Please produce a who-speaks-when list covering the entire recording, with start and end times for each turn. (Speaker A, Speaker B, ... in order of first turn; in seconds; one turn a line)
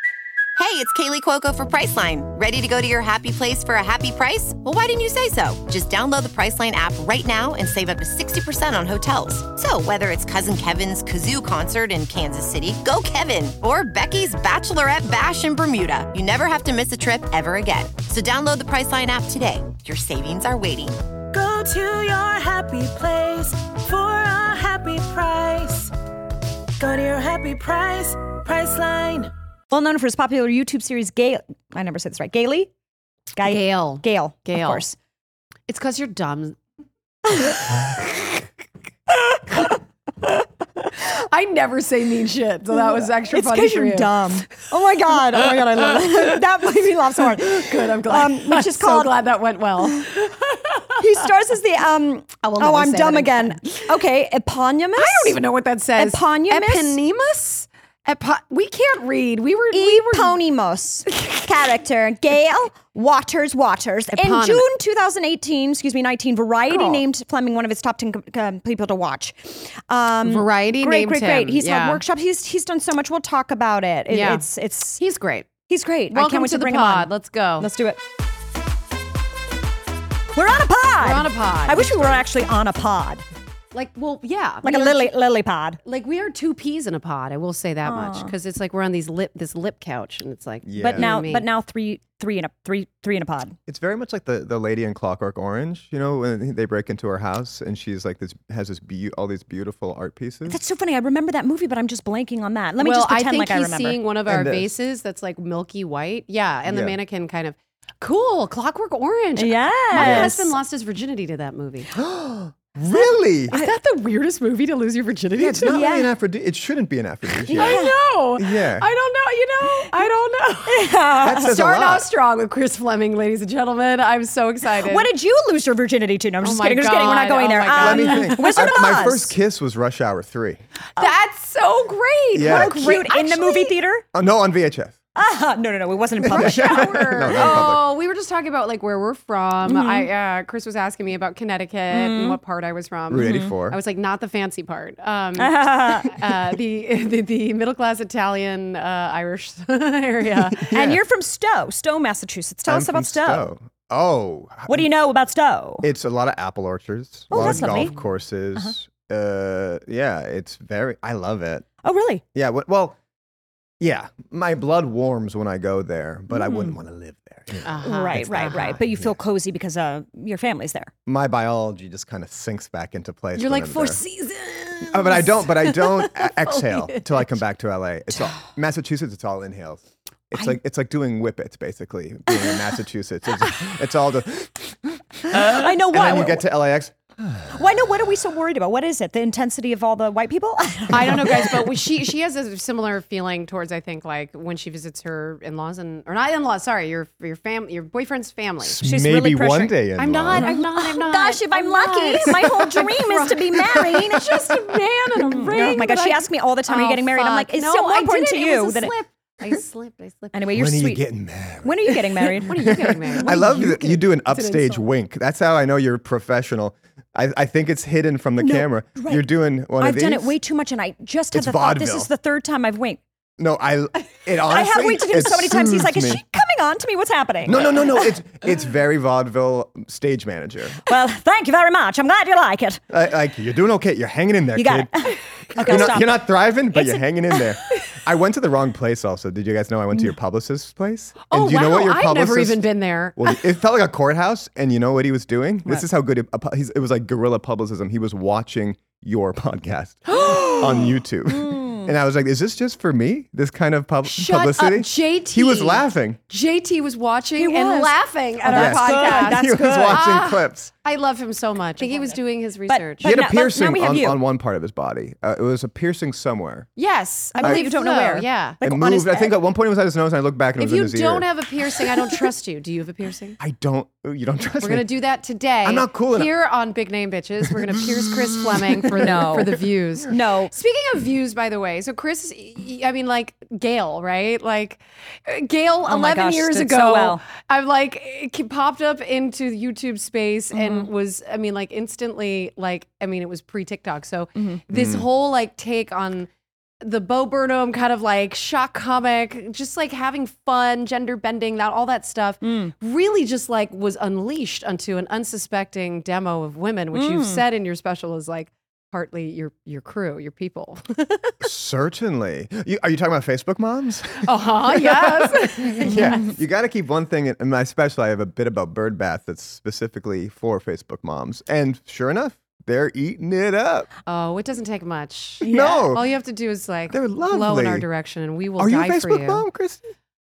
Speaker A: 0.6-21.0
Speaker B: 21.3-25.9
Speaker B: 26.8-29.3
Speaker C: 29.7-32.7
Speaker C: 33.4-35.0
Speaker D: 33.4-34.9
Speaker D: 35.7-36.6
Speaker D: 37.3-38.5
Speaker D: 39.1-44.3
Speaker C: 42.7-49.1
Speaker D: 45.3-46.4
Speaker D: 47.1-51.1
Speaker C: 51.0-55.4
Speaker D: 52.4-54.0
Speaker D: 55.0-60.4
Speaker C: 56.0-57.0
Speaker C: 59.7-75.0
Speaker D: 64.1-64.7
Speaker D: 66.7-67.0
Speaker D: 70.2-72.0
Speaker D: 74.1-74.5
Speaker D: 75.0-75.5
Speaker C: 75.7-78.0
Speaker D: 76.1-77.7
Speaker C: 80.3-83.2
Speaker D: 81.0-82.2
Speaker D: 83.7-85.1
Speaker C: 84.6-85.8
Speaker D: 85.8-91.5
Speaker C: 87.8-88.3
Speaker E: 90.6-91.1
Speaker C: 90.8-93.6
Speaker E: 93.7-100.6
Speaker C: 100.5-104.0
Speaker D: 102.8-111.9
Speaker E: 104.3-104.7
Speaker E: 106.7-107.0
Speaker C: 109.4-110.5
Speaker E: 110.0-110.3
Speaker E: 112.0-113.5
Speaker D: 113.5-115.8
Speaker E: 115.3-117.8
Speaker C: 115.7-116.1
Speaker D: 117.5-125.1
Speaker C: 117.5-117.9
Speaker E: 118.3-118.9
Speaker C: 120.7-121.5
Speaker E: 121.2-122.0
Speaker C: 124.8-129.3
Speaker D: 126.4-128.7
Speaker E: 127.8-130.6
Speaker D: 131.0-133.7
Speaker E: 132.3-133.0
Speaker C: 132.4-134.0
Speaker E: 134.1-134.9
Speaker C: 135.1-137.7
Speaker E: 136.2-137.8
Speaker D: 136.3-150.8
Speaker C: 139.6-140.1
Speaker C: 141.9-142.4
Speaker E: 143.1-143.8
Speaker C: 143.2-143.5
Speaker C: 145.4-146.2
Speaker E: 150.6-151.0
Speaker C: 150.7-153.5
Speaker E: 152.7-154.9
Speaker C: 154.7-155.9
Speaker E: 155.8-161.7
Speaker C: 157.3-157.9
Speaker D: 157.3-158.0
Speaker C: 161.8-162.2
Speaker E: 162.3-163.0
Speaker E: 163.8-169.1
Speaker C: 166.3-166.8
Speaker D: 167.6-168.8
Speaker C: 167.8-170.9
Speaker E: 171.1-174.0
Speaker D: 173.3-177.3
Speaker E: 174.9-187.6
Speaker C: 185.3-186.4
Speaker C: 187.5-191.6
Speaker D: 190.9-198.8
Speaker E: 198.6-200.5
Speaker C: 198.8-199.8
Speaker D: 200.0-210.4
Speaker C: 200.3-204.4
Speaker C: 205.3-208.9
Speaker C: 210.3-211.0
Speaker E: 210.5-220.3
Speaker C: 211.6-212.5
Speaker D: 212.4-214.9
Speaker C: 213.2-213.5
Speaker C: 218.4-219.2
Speaker C: 219.8-223.0
Speaker E: 221.3-222.1
Speaker E: 223.4-226.2
Speaker C: 224.4-228.1
Speaker E: 227.4-230.9
Speaker C: 230.8-232.8
Speaker E: 232.9-242.6
Speaker C: 234.5-237.3
Speaker D: 241.3-243.4
Speaker E: 243.2-256.2
Speaker D: 250.1-250.9
Speaker C: 251.3-251.9
Speaker D: 254.0-263.1
Speaker C: 257.4-260.0
Speaker E: 258.5-260.7
Speaker C: 261.8-262.1
Speaker C: 262.7-264.2
Speaker E: 263.0-266.7
Speaker D: 266.8-268.6
Speaker C: 267.3-269.4
Speaker E: 268.6-271.3
Speaker D: 270.6-273.4
Speaker E: 273.4-274.9
Speaker D: 274.6-296.3
Speaker E: 275.6-276.3
Speaker E: 277.5-279.5
Speaker C: 279.0-279.5
Speaker C: 280.1-280.5
Speaker C: 285.9-287.2
Speaker C: 290.5-290.9
Speaker C: 294.4-294.6
Speaker E: 294.7-295.0
Speaker D: 296.8-311.4
Speaker C: 302.4-302.7
Speaker C: 306.9-307.4
Speaker E: 311.4-323.9
Speaker D: 314.2-316.3
Speaker D: 324.1-329.4
Speaker C: 325.4-325.9
Speaker E: 325.4-326.0
Speaker E: 326.9-327.9
Speaker E: 328.6-329.8